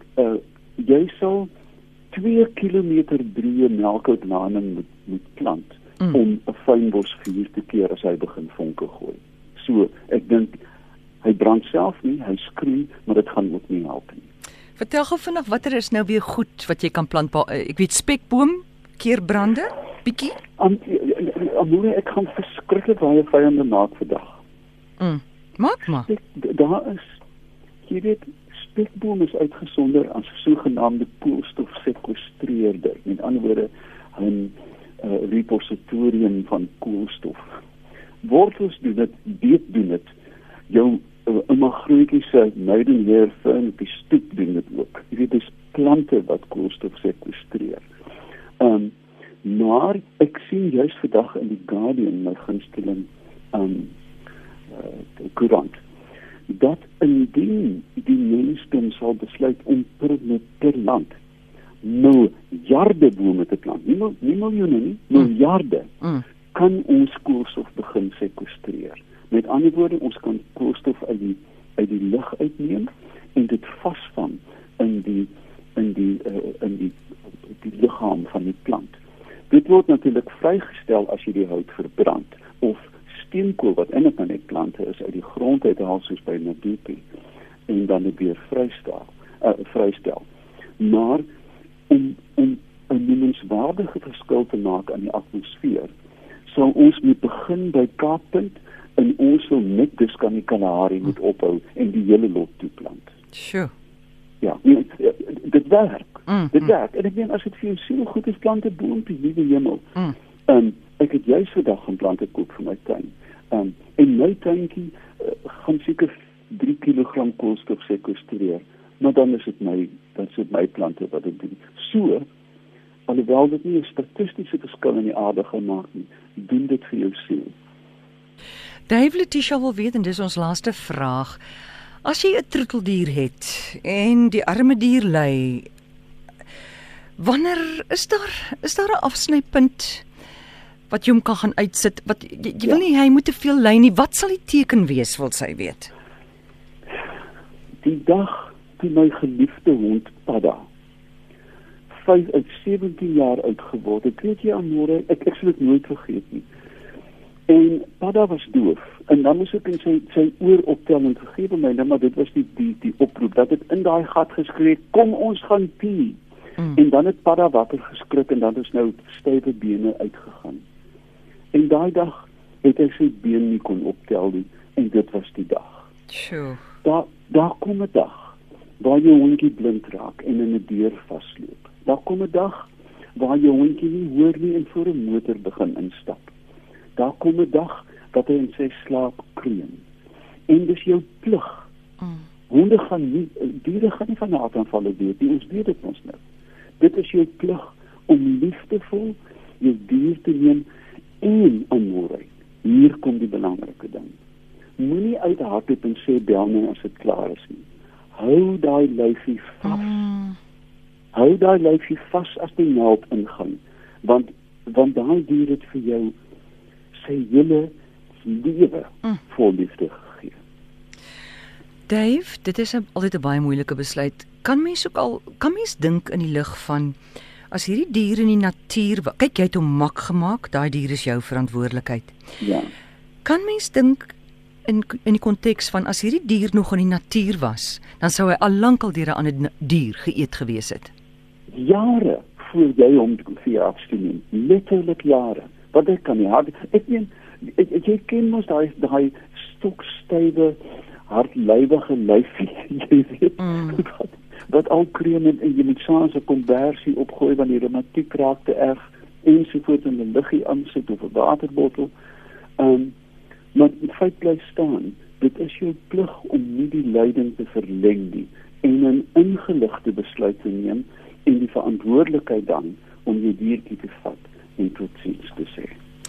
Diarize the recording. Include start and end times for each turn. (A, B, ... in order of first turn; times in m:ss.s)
0:00.2-0:01.5 A
0:02.1-0:10.5 A
0:11.2-0:14.3 A
0:14.8-0:20.3 B
0:20.6-0:24.4 A
0:25.0-0:26.1 B
0:26.0-0:27.1 A
0:27.8-0:37.5 A
0:38.2-0:40.1 A
0:40.7-0:47.8 A
0:48.6-0:53.9 A
0:54.7-0:55.8 A
0:56.5-1:01.1 A
1:01.8-1:05.9 A
1:06.5-1:17.0 A
1:17.5-1:18.9 A
1:19.5-1:27.0 A
1:27.7-1:30.2 A
1:30.8-1:31.2 A
1:31.9-1:35.9 A
1:36.5-1:43.1 A
1:43.3-1:43.7 B
1:44.4-1:49.8 A
1:46.3-1:46.5 B
1:50.5-2:02.2 A
2:03.1-2:07.5 A
2:08.9-2:11.4 B
2:12.0-2:15.7 B
2:17.2-2:20.0 B
2:20.9-2:25.9 B
2:27.8-2:30.6 A
2:31.9-2:36.4 A
2:37.5-2:46.2 A
2:46.7-2:50.6 A
2:51.5-2:55.8 A
2:56.1-2:56.6 B
2:56.8-3:06.3 A
3:07.0-3:09.8 A
3:10.5-3:11.6 A
3:12.5-3:16.2 A
3:16.8-3:20.6 A
3:21.2-3:24.1 A
3:24.8-3:30.0 A
3:29.6-3:30.4 B
3:31.1-3:36.1 A
3:36.9-3:40.4 A
3:41.9-3:47.0 B
3:47.5-3:52.2 B
3:52.4-3:52.7 A
3:53.2-3:54.1 B
3:54.6-4:00.9 B
4:01.5-4:10.6 A
4:11.1-4:21.9 A
4:13.4-4:13.8 B
4:22.6-4:22.9 A
4:23.5-4:35.7 A